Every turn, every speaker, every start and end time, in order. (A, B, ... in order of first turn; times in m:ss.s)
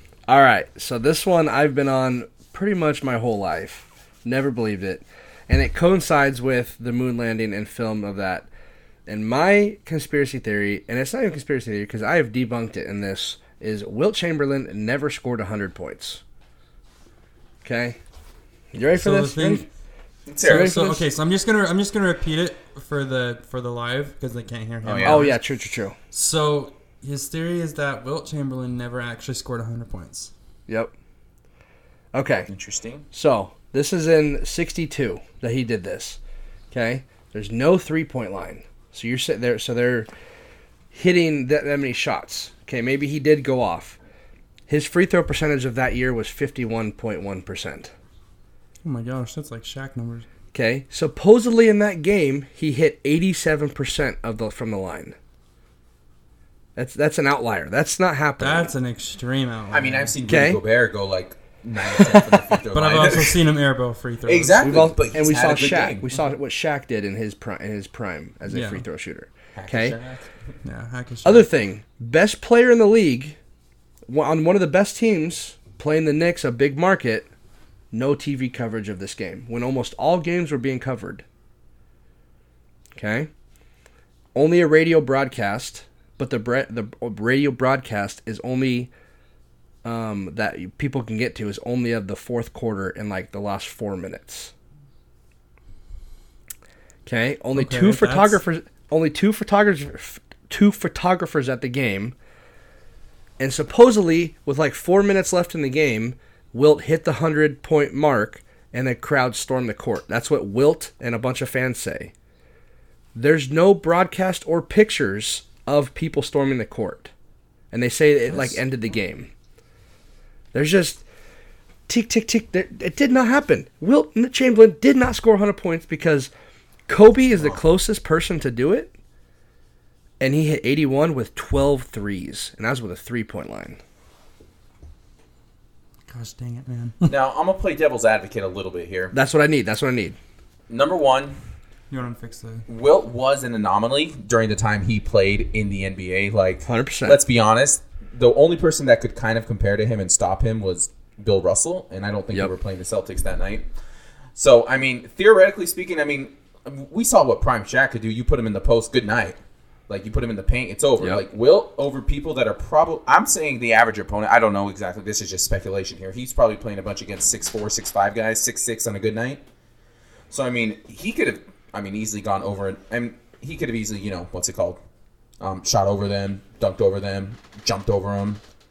0:00.3-0:08.5 A
0:09.1-0:16.2 A
0:17.6-0:18.0 A
0:18.7-0:19.7 A
0:19.0-0:19.7 B
0:20.3-0:20.7 C
0:20.4-0:25.4 B
0:20.4-0:21.1 A
0:24.8-0:25.3 C
0:25.0-0:26.0 A
0:26.1-0:30.3 B
0:32.1-0:32.5 A
0:32.5-0:33.0 C
0:33.1-0:36.2 A
0:36.7-0:40.1 A
0:40.9-0:44.0 A
0:44.7-0:47.9 A
0:48.8-0:50.3 B
0:50.5-0:55.2 A
0:56.8-0:58.7 A
0:58.4-1:00.1 B
0:59.7-1:03.4 C
1:00.3-1:00.6 A
1:02.0-1:02.4 A
1:02.7-1:04.7 B
1:04.3-1:06.1 C
1:04.6-1:10.0 A
1:08.5-1:08.8 B
1:09.6-1:10.3 C
1:10.6-1:11.5 B
1:11.2-1:13.4 A
1:14.1-1:17.3 A
1:17.9-1:21.2 A
1:23.0-1:23.3 A
1:24.4-1:28.9 A
1:29.8-1:34.5 A
1:37.1-1:42.2 A
1:37.6-1:38.4 B
1:43.4-1:52.1 A
1:53.2-1:57.1 A
1:57.7-1:59.3 A
2:00.5-2:01.0 A
2:01.9-2:06.3 A
2:06.9-2:08.9 A
2:07.4-2:07.6 C
2:10.2-2:13.8 A
2:16.1-2:17.1 B
2:17.1-2:19.1 C
2:19.1-2:20.2 A
2:20.7-2:21.4 C
2:21.9-2:22.6 B
2:22.7-2:33.7 C
2:26.6-2:27.2 A
2:34.4-2:39.4 C
2:39.9-2:49.4 C
2:50.3-2:54.8 C
2:55.4-2:58.4 C